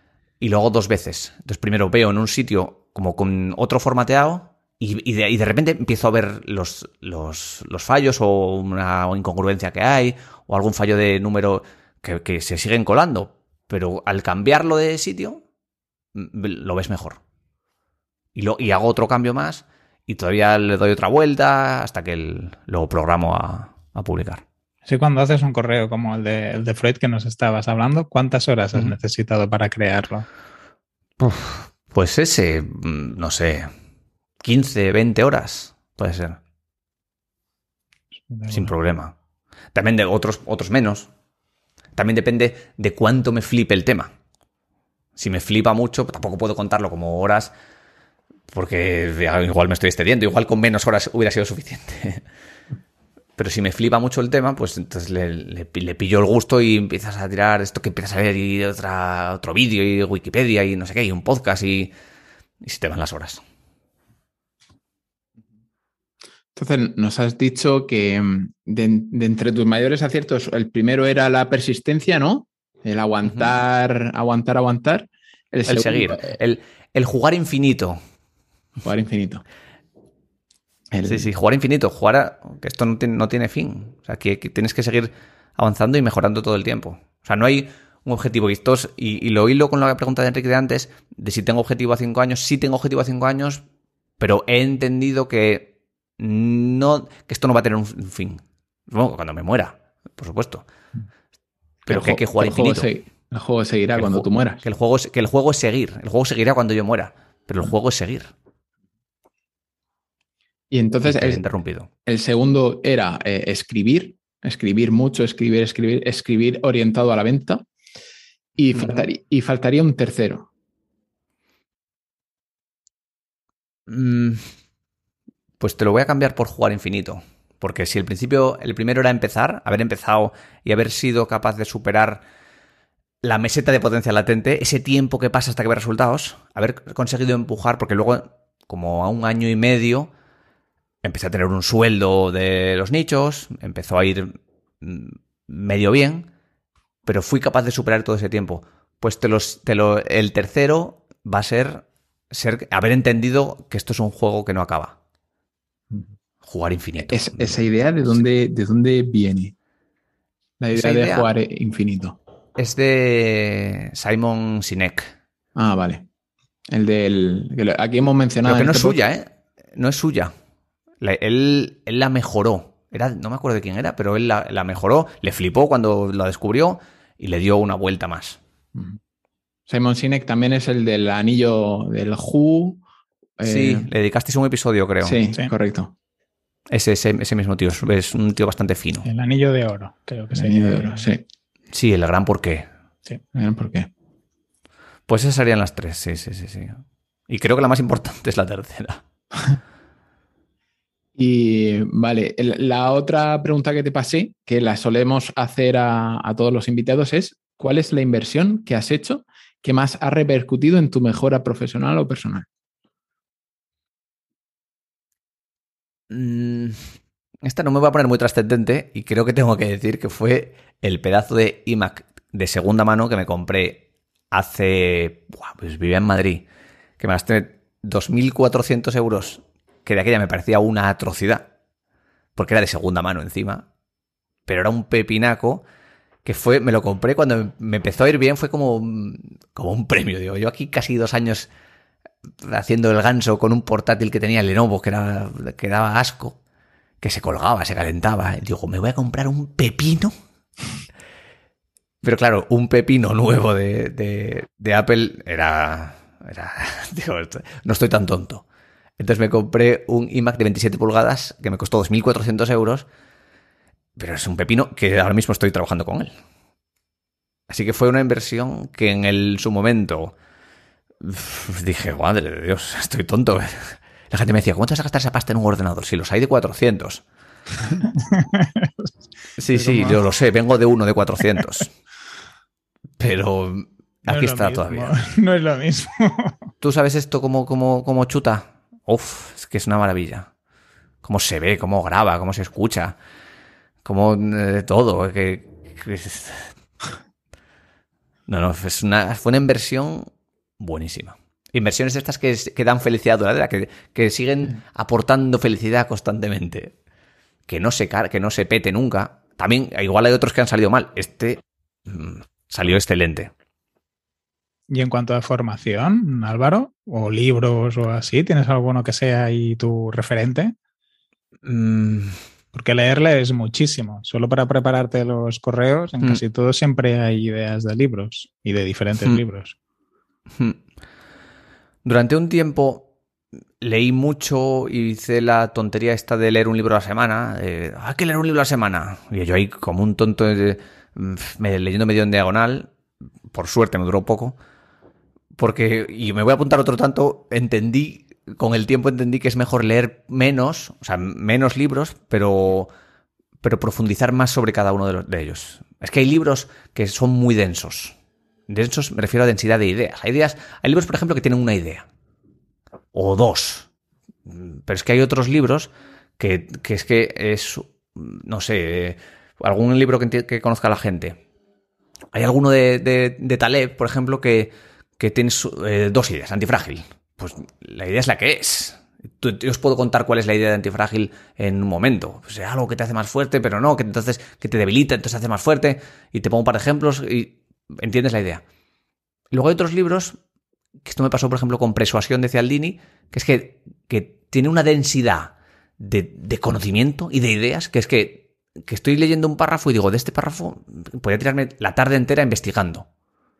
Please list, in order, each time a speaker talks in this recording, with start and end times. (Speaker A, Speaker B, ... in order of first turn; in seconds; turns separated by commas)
Speaker A: 0.4-15.4, Speaker A: 16.1-17.2, Speaker A: 18.4-24.4, Speaker B: 24.9-30.3, Speaker A: 31.2-33.7, Speaker A: 34.4-36.4, Speaker B: 38.3-38.7, Speaker A: 38.5-39.1, Speaker A: 39.7-41.1, Speaker A: 42.0-44.1, Speaker A: 45.2-47.5, Speaker A: 48.5-52.2, Speaker A: 53.4-61.9, Speaker A: 62.6-63.4, Speaker C: 66.5-76.3, Speaker A: 75.7-78.0, Speaker C: 78.8-79.4, Speaker C: 80.9-81.3, Speaker A: 81.0-93.6, Speaker A: 94.2-100.7, Speaker A: 101.9-102.9, Speaker C: 101.9-104.6, Speaker A: 104.0-108.3, Speaker C: 110.7-111.4, Speaker A: 111.0-111.9, Speaker C: 112.1-117.7, Speaker C: 118.6-120.5, Speaker A: 118.8-119.0, Speaker A: 123.9-124.5, Speaker A: 125.6-132.2, Speaker A: 133.2-140.1, Speaker A: 141.0-146.3, Speaker A: 147.1-155.0, Speaker A: 156.4-157.6, Speaker C: 157.1-159.5, Speaker C: 160.6-162.2, Speaker A: 160.7-161.3, Speaker A: 162.6-165.1, Speaker C: 165.6-166.0, Speaker C: 166.7-169.0, Speaker A: 168.4-170.3, Speaker A: 171.0-178.4, Speaker C: 179.7-182.8, Speaker C: 183.4-183.9, Speaker A: 183.4-185.2, Speaker C: 185.0-185.9, Speaker A: 186.7-189.1, Speaker B: 189.1-191.1, Speaker C: 190.3-191.2, Speaker A: 191.7-192.7, Speaker C: 193.3-193.9, Speaker A: 195.1-199.0, Speaker C: 201.2-212.5, Speaker A: 216.1-216.8, Speaker A: 217.4-226.5, Speaker A: 227.0-231.5, Speaker A: 232.4-233.7, Speaker A: 234.5-235.7, Speaker A: 236.2-241.5, Speaker A: 242.4-246.4, Speaker A: 247.0-250.1, Speaker A: 252.0-258.4, Speaker A: 259.0-262.9, Speaker A: 264.0-266.1, Speaker A: 267.5-270.1, Speaker A: 271.0-277.0, Speaker B: 278.0-278.9, Speaker A: 279.4-281.7, Speaker B: 279.5-280.0, Speaker A: 283.0-284.9, Speaker B: 284.1-286.4, Speaker A: 286.6-290.3, Speaker A: 291.0-293.0, Speaker A: 293.8-296.5, Speaker A: 298.3-306.7, Speaker A: 307.5-313.3, Speaker B: 314.7-320.6, Speaker A: 321.4-322.2, Speaker B: 322.5-329.6, Speaker A: 331.9-332.9, Speaker A: 333.6-342.7, Speaker A: 343.3-344.4, Speaker A: 345.4-352.7, Speaker A: 353.4-358.0, Speaker A: 358.5-361.9, Speaker A: 362.9-363.7, Speaker A: 364.3-371.2, Speaker A: 372.1-388.4, Speaker A: 389.3-390.2, Speaker A: 390.8-402.9